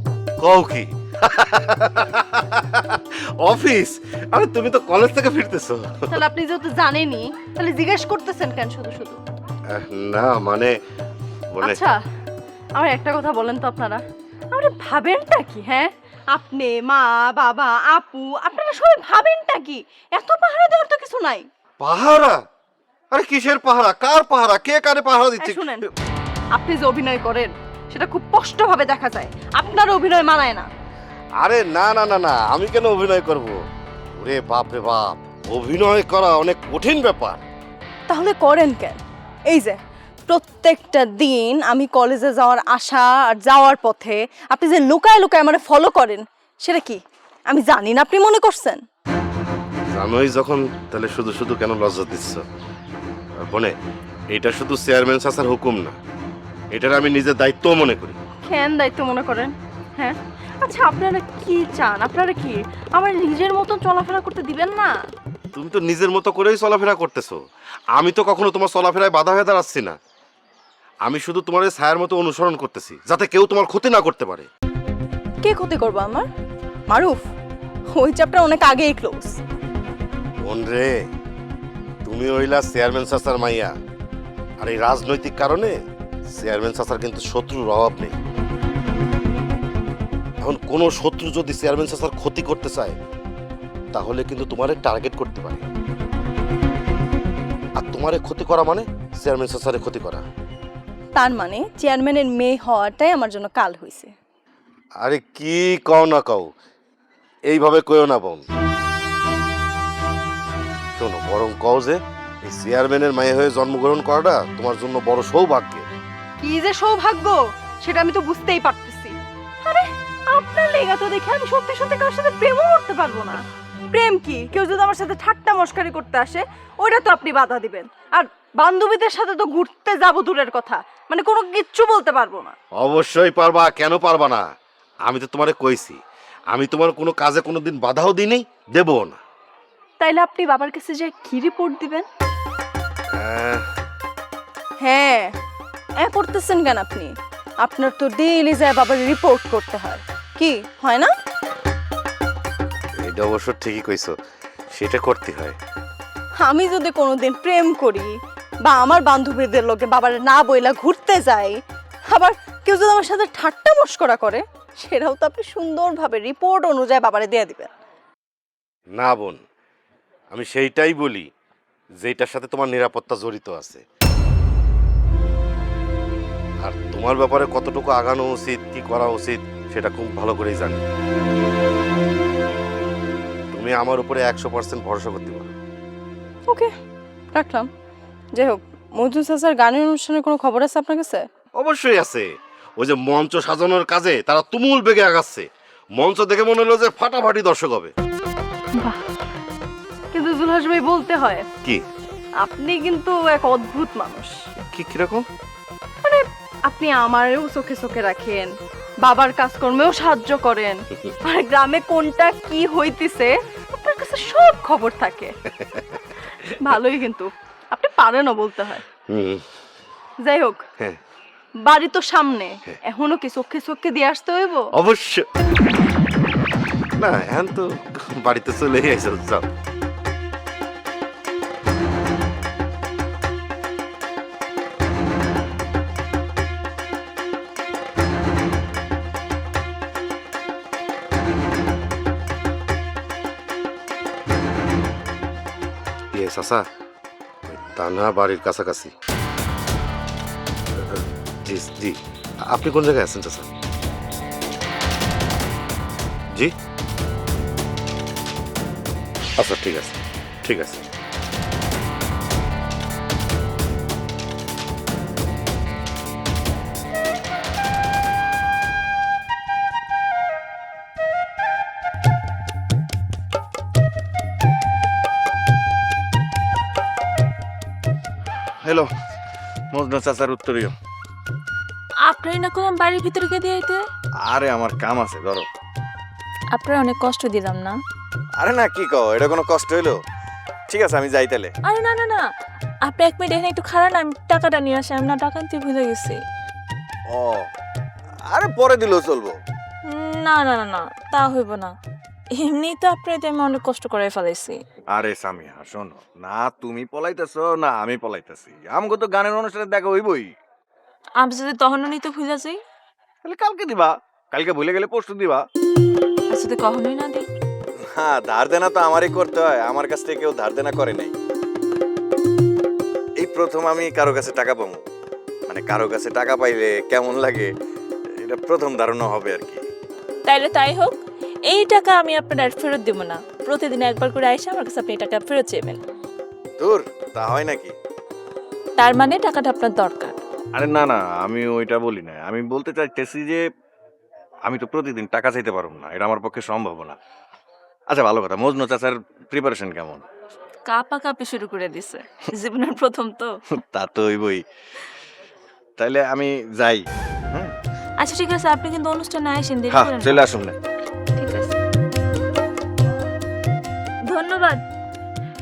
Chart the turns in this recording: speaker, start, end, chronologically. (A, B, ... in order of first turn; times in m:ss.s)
0:00.4-0:05.9 A
0:06.1-0:09.2 B
0:09.7-0:10.7 A
0:11.6-0:12.0 B
0:12.8-0:21.5 B
0:21.8-0:22.4 A
0:23.1-0:25.8 A
0:25.4-0:25.8 B
0:26.5-0:30.7 B
0:31.4-0:33.6 A
0:34.2-0:37.4 A
0:38.1-0:48.8 B
0:49.9-0:52.4 A
0:53.5-0:53.8 A
0:54.3-0:56.0 A
0:56.7-0:58.2 A
0:58.4-1:04.9 B
1:05.5-1:07.4 A
1:08.0-1:10.0 A
1:11.1-1:14.5 A
1:15.4-1:16.3 B
1:16.9-1:17.2 B
1:17.9-1:19.4 B
1:20.4-1:20.9 A
1:22.0-1:23.7 A
1:24.6-1:25.8 A
1:26.3-1:28.2 A
1:30.4-1:33.0 A
1:33.9-1:35.6 A
1:37.8-1:40.2 A
1:41.2-1:44.1 B
1:45.0-1:46.5 A
1:47.5-1:48.4 A
1:51.0-1:55.9 A
1:56.4-2:12.6 B
2:12.8-2:14.4 A
2:15.1-2:16.0 A
2:16.5-2:19.2 A
2:20.0-2:22.1 B
2:23.2-2:23.6 A
2:24.8-2:25.4 B
2:26.0-2:31.1 B
2:33.0-2:34.2 A
2:34.7-2:35.6 A
2:36.4-2:41.6 B
2:42.1-2:47.7 B
2:49.0-2:49.4 A
2:50.3-2:51.3 A
2:52.0-2:53.8 A
2:56.6-3:00.8 A
3:03.5-3:05.5 A
3:06.5-3:06.7 B
3:07.3-3:07.7 B
3:08.4-3:11.2 B
3:11.6-3:12.3 A
3:12.8-3:17.9 A
3:20.1-3:21.5 B
3:22.4-3:24.3 B
3:24.7-3:25.2 A
3:26.0-3:28.5 B
3:29.0-3:35.3 B
3:36.6-3:38.8 B
3:39.1-3:39.4 A
3:40.2-3:40.6 B
3:41.6-3:44.7 B
3:44.8-3:45.3 A
3:47.0-3:49.5 A
4:06.1-4:06.6 A
4:07.5-4:08.9 A
4:10.8-4:13.5 A
4:19.4-4:20.9 A
4:38.6-4:38.9 C
4:39.7-4:40.7 C
4:42.1-4:43.8 D
4:44.2-4:45.5 C
4:46.6-4:47.8 D
4:48.4-4:50.0 C
4:50.7-4:51.5 C
4:51.6-4:52.2 D
4:52.9-4:56.2 D
4:57.1-4:57.5 C
4:58.3-4:59.4 C
4:59.9-5:01.7 D
5:02.4-5:04.6 D
5:04.9-5:10.3 C
5:11.2-5:12.6 D
5:13.2-5:15.4 C
5:16.3-5:17.2 D
5:18.0-5:21.1 C
5:23.2-5:24.8 C
5:25.5-5:27.5 C
5:28.2-5:29.6 C
5:30.3-5:31.0 D
5:31.5-5:35.8 D
5:36.6-5:37.7 C
5:38.8-5:40.2 D
5:40.6-5:43.4 C
5:44.5-5:47.0 C
5:47.9-5:50.0 C
5:50.7-5:53.3 D
5:53.7-5:54.4 C
5:55.8-5:57.5 C
5:58.0-6:00.2 D
5:59.7-6:00.6 C
6:01.2-6:01.5 D
6:04.1-6:04.6 D